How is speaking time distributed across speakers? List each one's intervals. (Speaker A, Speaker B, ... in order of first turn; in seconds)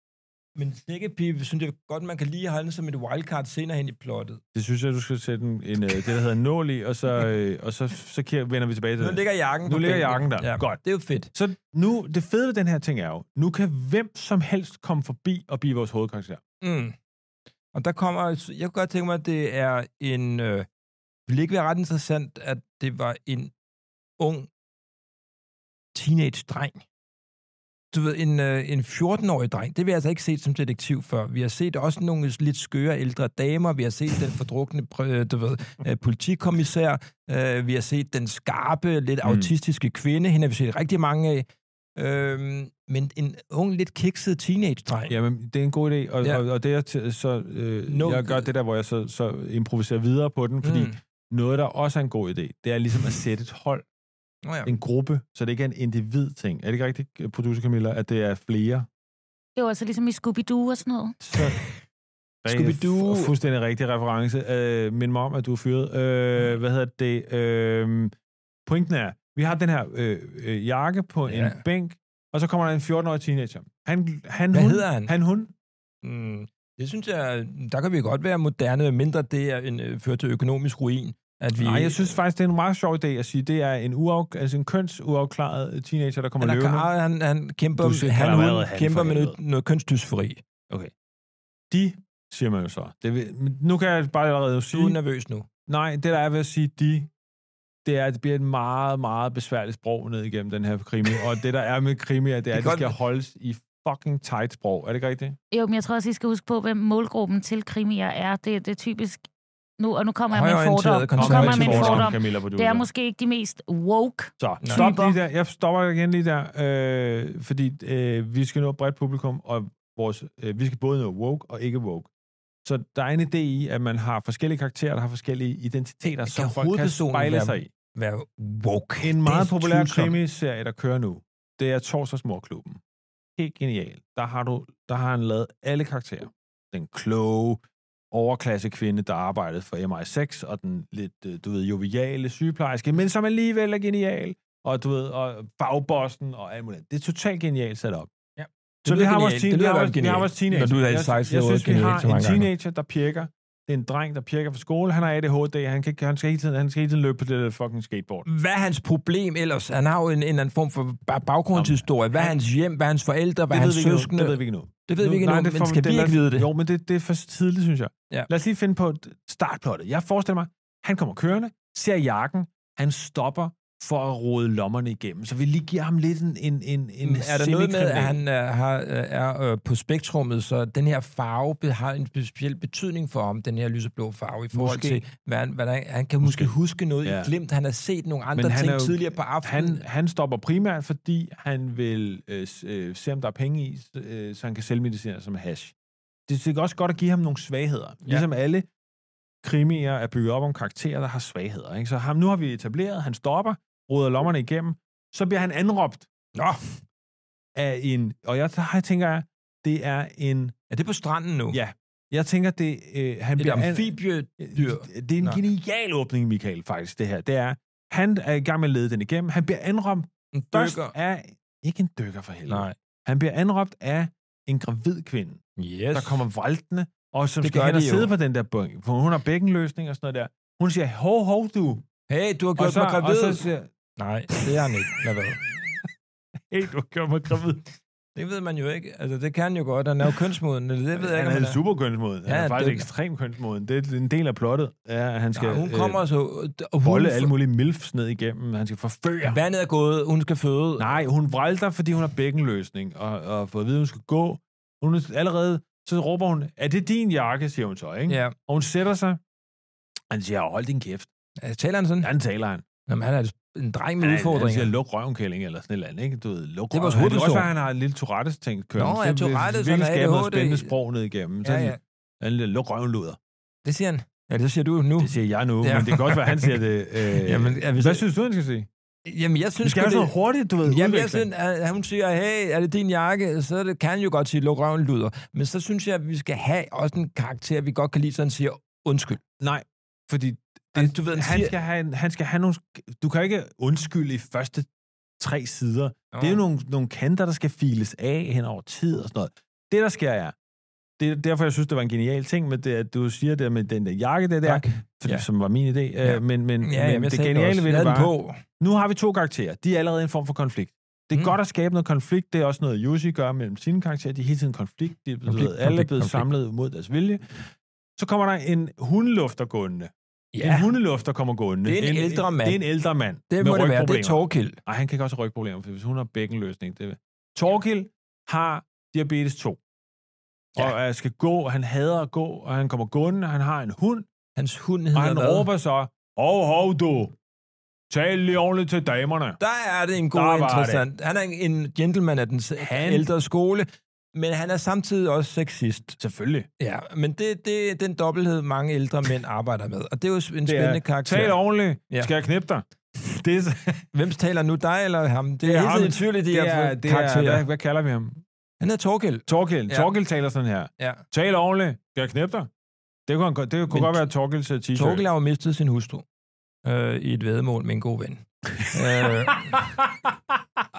Speaker A: 0.6-4.4, 9.0-11.3, 16.6-16.9, 17.7-20.7, 21.3-23.5, 24.2-24.5, 25.9-26.8, 27.9-45.1, 47.9-48.5, 50.6-51.0, 54.4-54.7, 62.5-63.3, 71.3-71.6, 74.5-75.1, 76.0-82.2, 86.4-90.4, 94.7-95.5, 102.5-103.0, 110.3-112.1, 114.6-114.9, 126.2-130.2, 148.4-152.5, 158.2-166.5, 177.0-189.8, 206.3-206.6, 210.7-211.6, 213.4-215.4, 220.3-220.9, 222.5-222.8, 225.6-226.2, 227.4-228.1, 232.1-233.4, 234.0-235.4, 238.1-241.6, 242.3-242.9, 245.3-247.3, 249.2-250.9, 258.1-258.4, 261.4-262.1, 262.9-264.7, 266.7-267.5, 268.8-270.8, 271.4-271.8, 273.6-278.1, 279.1-280.1, 280.6-289.2, 290.7-291.5, 296.1-296.4, 304.4-305.3, 306.0-308.4, 315.3-316.3, 320.3-320.7, 321.6-322.6, 323.3-324.6, 334.4-335.5, 339.4-346.0, 346.6-351.4, 353.9-357.4, 358.6-359.9, 360.8-361.0, 363.7-364.1, 364.7-366.1, 366.6-369.7
Speaker B: 4.5-16.4, 39.2-39.5, 45.1-53.9, 54.6-58.9, 61.2-61.6, 62.4-68.1, 68.7-75.5, 81.5-86.9, 87.8-89.4, 91.7-95.0, 95.7-97.1, 97.8-105.4, 111.2-112.9, 114.4-122.1, 122.6-127.7, 129.0-132.8, 133.4-137.6, 138.1-148.1, 148.8-158.2, 161.5-162.3, 163.5-178.2, 184.5-185.0, 186.2-186.5, 187.0-187.3, 188.4-195.7, 196.3-198.7, 199.4-206.1, 207.6-210.5, 211.5-225.4, 225.9-231.8, 232.6-233.7, 234.3-234.6, 236.5-237.7, 240.9-246.0, 246.8-249.4, 250.8-259.2, 260.1-261.1, 262.0-262.6, 264.0-273.2, 275.0-278.7, 279.6-281.2, 289.4-294.7, 295.2-300.4, 301.0-329.6, 330.6-334.1, 334.9-337.1, 337.9-339.4, 340.1-340.9, 342.6-343.1, 346.0-346.5, 350.4-353.9, 355.4-358.2, 359.3-362.5, 363.1-365.1, 368.6-370.6
Speaker C: 59.5-61.2, 105.5-109.2, 109.8-115.2